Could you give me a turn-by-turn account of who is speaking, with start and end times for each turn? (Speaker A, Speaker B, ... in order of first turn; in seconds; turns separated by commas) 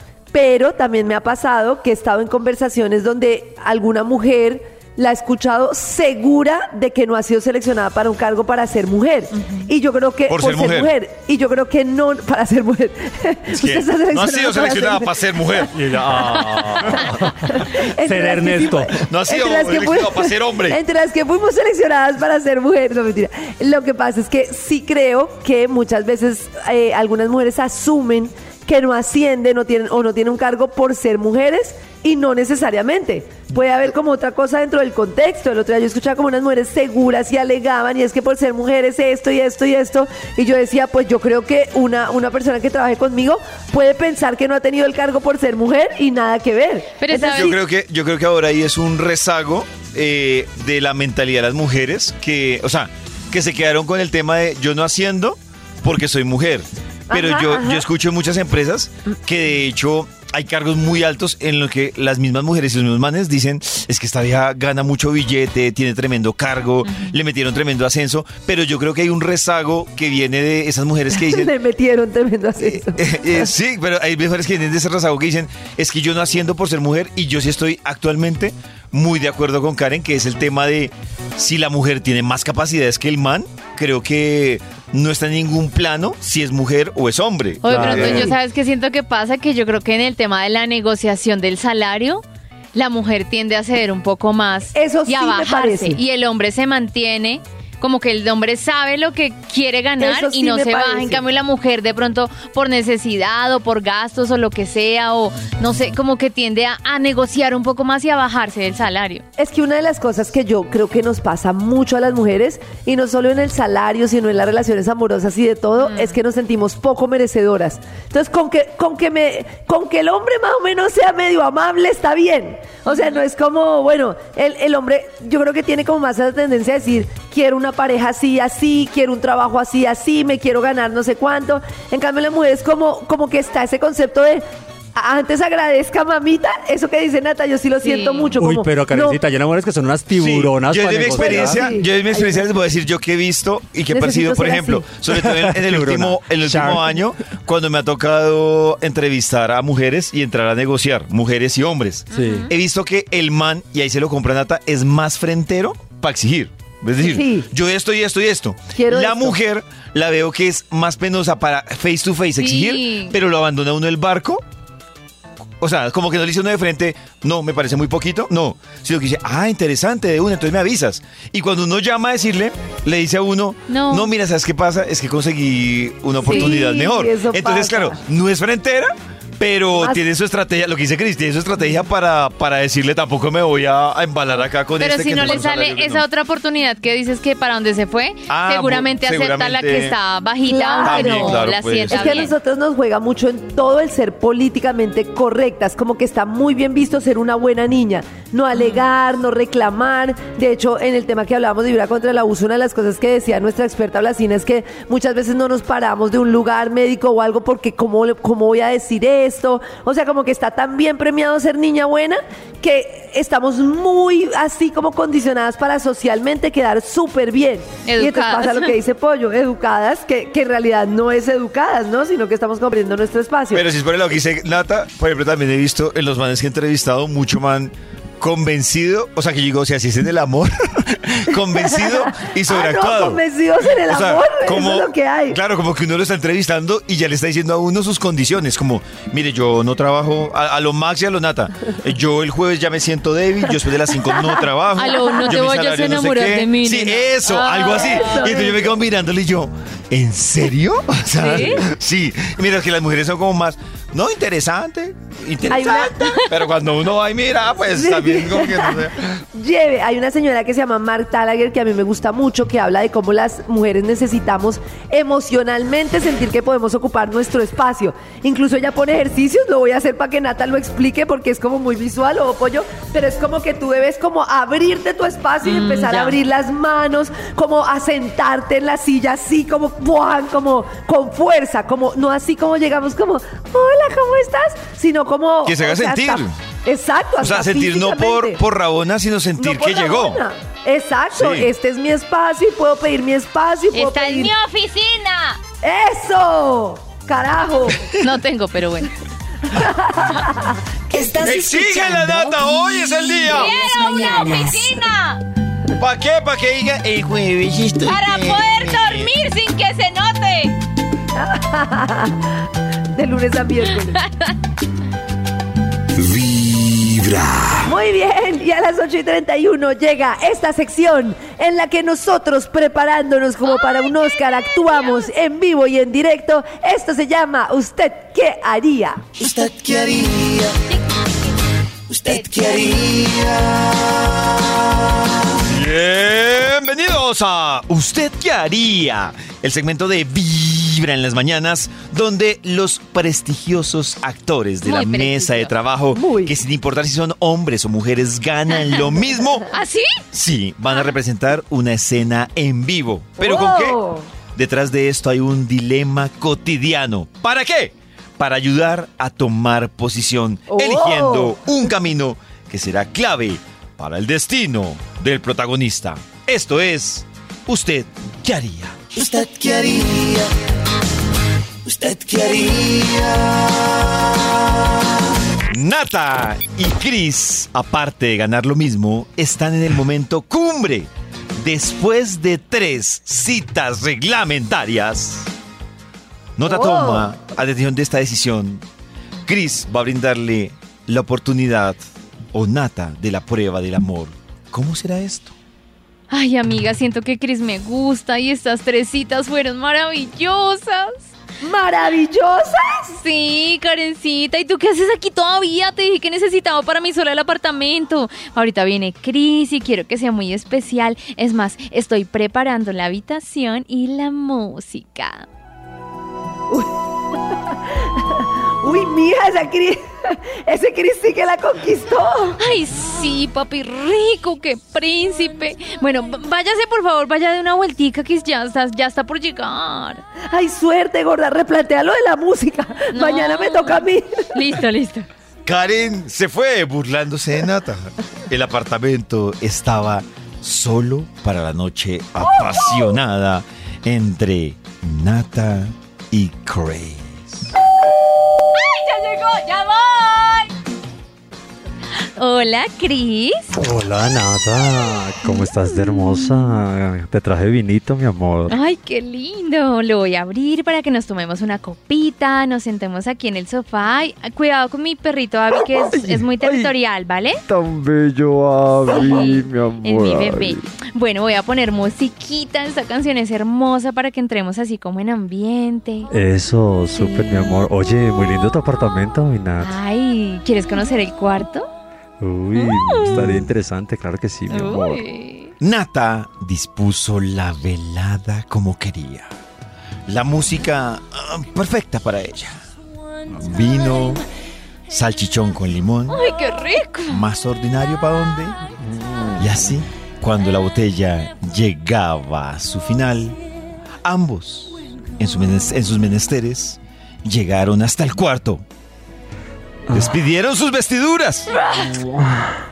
Speaker A: 0.3-47.5, Speaker B: 9.4-9.7, Speaker C: 10.3-10.9, Speaker C: 13.5-17.1, Speaker D: 15.8-19.0, Speaker C: 19.0-20.8, Speaker B: 47.0-47.6, Speaker C: 47.2-71.5, Speaker A: 57.1-57.9, Speaker A: 71.1-73.5, Speaker C: 72.6-88.3, Speaker B: 87.6-92.2, Speaker D: 87.7-88.3, Speaker B: 92.7-109.2, Speaker A: 94.8-96.0, Speaker A: 100.0-101.2, Speaker A: 109.4-134.4, Speaker B: 115.8-116.2, Speaker B: 122.9-123.2, Speaker A: 134.9-139.2, Speaker B: 137.8-138.3, Speaker D: 138.4-141.7, Speaker C: 140.1-164.4, Speaker A: 141.1-142.5, Speaker A: 143.9-144.9, Speaker D: 145.1-147.0, Speaker B: 152.1-152.5, Speaker D: 152.1-152.5, Speaker A: 157.0-157.5, Speaker A: 158.8-159.4, Speaker B: 162.4-163.2, Speaker C: 165.6-186.1, Speaker B: 173.7-174.1, Speaker B: 176.2-176.6, Speaker A: 176.2-178.0, Speaker B: 184.8-192.3, Speaker C: 188.3-190.0, Speaker A: 190.5-223.6, Speaker C: 190.8-192.3, Speaker B: 198.6-198.8, Speaker B: 217.9-218.7, Speaker C: 223.5-233.2, Speaker A: 231.6-235.4, Speaker C: 233.8-259.2, Speaker B: 244.8-248.4, Speaker A: 247.7-248.7, Speaker B: 251.2-251.7, Speaker A: 255.5-256.2, Speaker A: 257.8-258.8, Speaker A: 259.4-288.4, Speaker B: 275.4-276.2, Speaker C: 285.4-286.4, Speaker C: 287.2-290.2, Speaker A: 289.4-294.3, Speaker C: 291.1-291.5, Speaker B: 293.7-295.4, Speaker A: 295.6-297.8, Speaker B: 298.0-298.9, Speaker A: 299.5-300.5, Speaker E: 300.9-304.9, Speaker C: 301.2-303.5, Speaker B: 303.2-305.2, Speaker C: 305.8-309.1, Speaker B: 307.9-310.6, Speaker A: 311.1-312.3, Speaker A: 312.9-314.0, Speaker B: 314.0-314.3, Speaker F: 315.9-317.7, Speaker A: 317.6-329.1, Speaker B: 323.5-325.1, Speaker C: 329.2-330.4, Speaker F: 329.5-330.2, Speaker C: 332.1-332.5, Speaker F: 332.2-333.4, Speaker C: 335.5-349.5, Speaker B: 344.6-345.5, Speaker A: 345.9-346.3, Speaker B: 349.5-350.0, Speaker C: 350.1-353.8, Speaker A: 353.2-354.1, Speaker C: 354.4-369.1, Speaker A: 360.5-361.4, Speaker F: 369.0-370.2, Speaker F: 371.7-373.1, Speaker C: 375.5-385.3, Speaker C: 386.4-388.6, Speaker A: 386.5-387.1, Speaker C: 389.3-391.8, Speaker C: 392.3-395.3, Speaker B: 396.1-401.1, Speaker A: 401.4-402.9, Speaker B: 402.9-415.3, Speaker A: 418.0-422.4, Speaker B: 422.4-430.0, Speaker A: 430.3-434.3, Speaker B: 432.9-435.1, Speaker C: 435.5-447.5, Speaker B: 448.3-450.5, Speaker B: 452.2-453.6, Speaker D: 453.6-458.6, Speaker B: 455.7-456.5, Speaker B: 458.5-467.4, Speaker D: 465.5-466.7, Speaker D: 467.5-470.6, Speaker B: 468.9-476.1, Speaker D: 476.1-479.7, Speaker B: 476.9-477.6, Speaker B: 479.6-481.7, Speaker D: 482.2-485.0, Speaker B: 482.5-483.4, Speaker B: 484.5-485.5, Speaker C: 485.6-489.3, Speaker C: 490.1-492.6, Speaker C: 493.3-494.2, Speaker C: 494.9-496.2, Speaker B: 496.1-497.2, Speaker C: 497.1-498.6, Speaker D: 498.8-499.6, Speaker C: 499.4-503.4, Speaker C: 504.0-508.6, Speaker C: 509.9-511.6, Speaker D: 511.8-512.5